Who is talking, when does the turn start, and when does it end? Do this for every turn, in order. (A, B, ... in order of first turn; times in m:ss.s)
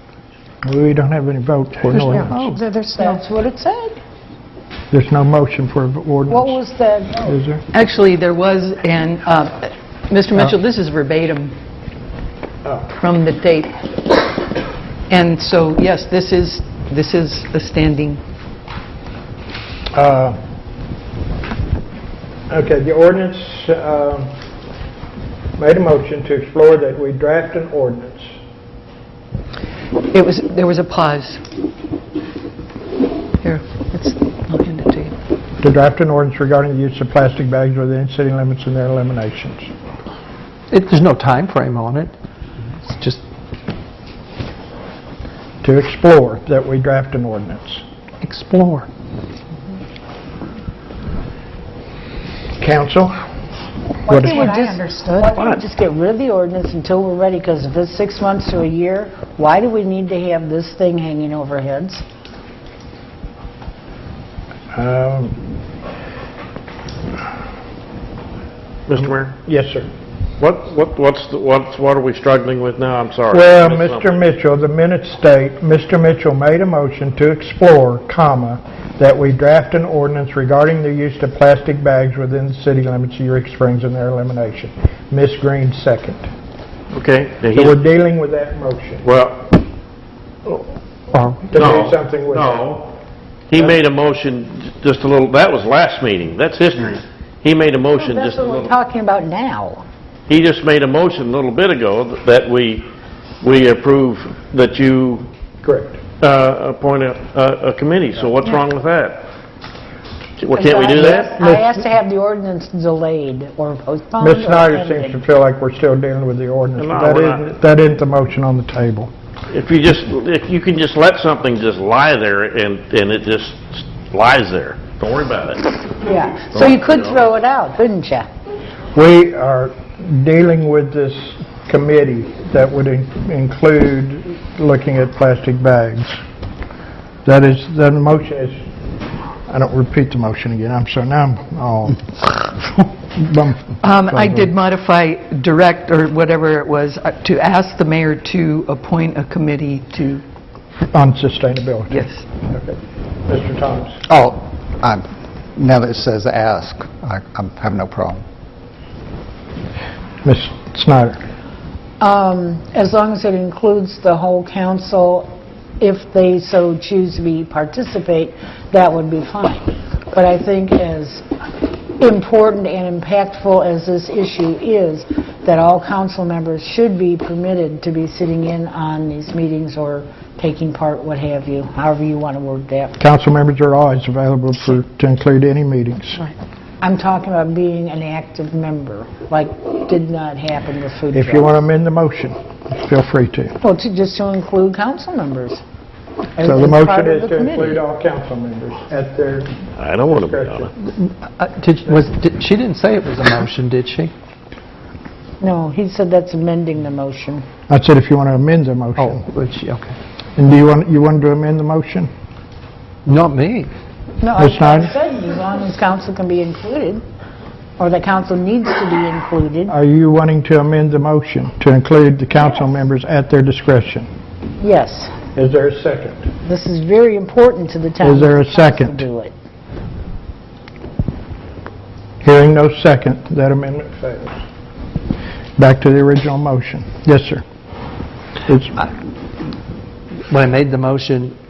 0:00.6-0:02.4 A
0:02.1-0:03.2 B
0:02.3-0:02.6 C
0:02.9-0:04.0 D
0:04.9-0:06.6 A
0:06.3-0:07.3 D
0:07.2-0:07.6 A
0:07.7-0:11.5 E
0:12.9-0:13.7 E
0:15.1-0:18.2 E
0:19.9-0:20.4 A
0:22.5-0:24.3 A
0:25.6-0:28.3 A
0:30.1-0:31.4 E
0:33.4-0:35.1 E
0:35.6-0:39.7 A
0:40.7-0:42.1 C
0:42.8-0:43.2 C
0:45.6-0:47.8 A
0:48.2-0:48.9 C
0:52.6-0:53.2 A
0:54.0-1:02.0 D
0:54.1-0:54.4 A
0:54.2-0:55.3 B
1:04.7-1:05.4 A
1:08.9-1:09.3 F
1:09.0-1:09.9 A
1:10.4-1:14.1 F
1:13.3-1:26.2 A
1:26.9-1:27.8 F
1:27.6-1:29.0 A
1:29.0-1:29.5 F
1:31.1-1:31.4 C
1:31.4-1:32.7 A
1:31.6-1:32.9 F
1:33.5-1:38.7 F
1:37.9-1:39.8 D
1:40.3-1:42.9 F
1:43.4-1:45.2 F
1:45.6-1:46.0 A
1:46.2-1:49.2 F
1:50.4-1:51.3 F
1:50.5-1:55.2 D
1:51.2-1:51.7 A
1:54.2-1:59.1 A
1:56.8-1:57.4 F
1:59.5-2:05.6 F
2:06.0-2:08.3 D
2:06.5-2:07.2 F
2:08.9-2:16.2 A
2:17.2-2:18.6 A
2:19.5-2:24.5 A
2:23.8-2:30.2 E
2:30.8-2:34.0 A
2:31.9-2:32.2 E
2:34.1-2:38.2 G
2:40.2-2:41.2 A
2:42.0-2:51.3 D
2:52.0-3:03.0 D
3:03.0-3:06.3 A
3:06.8-3:11.6 D
3:11.1-3:13.6 A
3:13.6-3:15.6 D
3:16.4-3:17.8 D
3:16.4-3:20.7 A
3:19.8-3:20.6 F
3:20.8-3:24.1 C
3:25.4-3:27.4 D
3:27.7-3:29.2 A
3:29.0-3:30.0 C
3:30.4-3:32.1 A
3:33.0-3:33.7 C
3:34.2-3:37.0 D
3:34.4-3:34.9 A
3:37.8-3:39.8 D
3:39.7-3:44.1 A
3:44.6-3:45.2 D
3:45.4-3:46.3 A
3:46.4-3:49.3 D
3:48.0-3:49.0 A
3:52.2-3:54.4 A
3:55.6-3:57.4 A
3:58.5-3:58.8 A
4:00.3-4:01.3 C